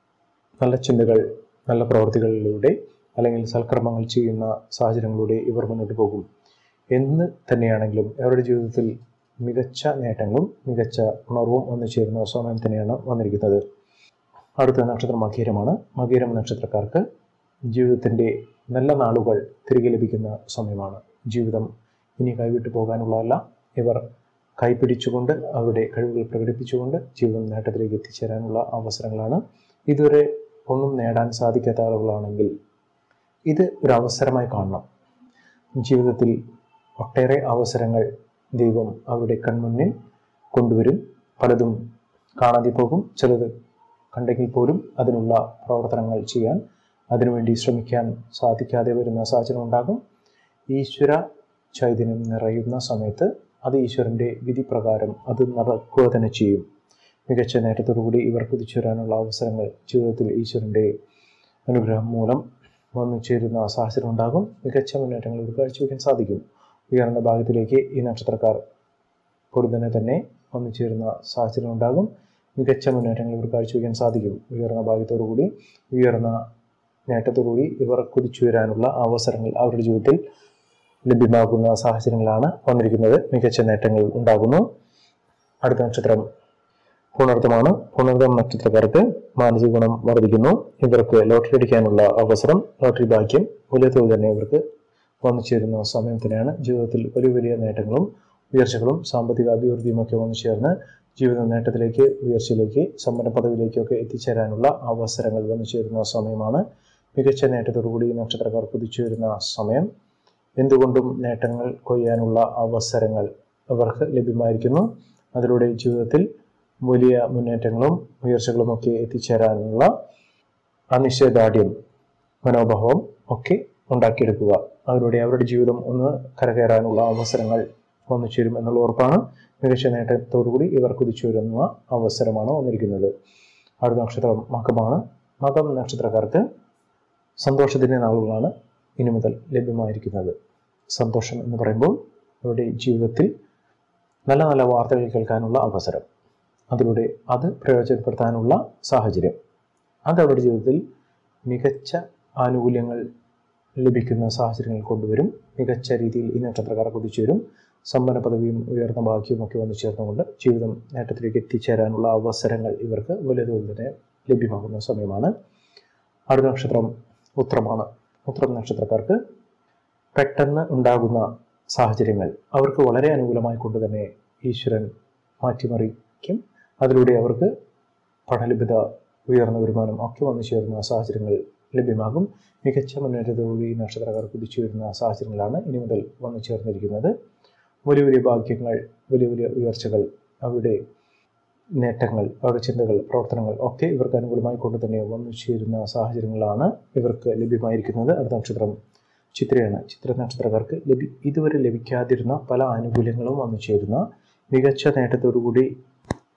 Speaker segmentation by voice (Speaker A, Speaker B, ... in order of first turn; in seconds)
Speaker A: 0.6-6.2, 6.9-8.9, 9.4-13.6, 14.6-17.0, 17.7-24.0, 24.6-32.5, 33.5-34.8, 35.8-36.4, 37.0-39.9, 40.5-41.8, 42.4-43.5, 44.1-46.6, 47.1-50.0, 50.7-51.2, 51.7-56.6, 57.3-60.9, 61.7-62.4, 63.0-68.6, 69.5-76.4, 77.1-80.2, 81.1-84.6, 85.6-86.2, 87.1-94.6, 95.2-106.6, 107.2-109.9, 110.6-116.2, 116.8-119.9, 120.9-121.7, 122.4-133.1, 133.8-136.4, 137.4-140.3, 140.9-143.3, 144.3-146.0, 146.7-149.4, 150.1-150.8, 151.4-153.0, 153.8-165.3, 166.3-169.2, 170.1-174.9, 175.4-177.5, 178.3-187.1, 187.9-190.8, 191.8-198.8, 199.3-205.7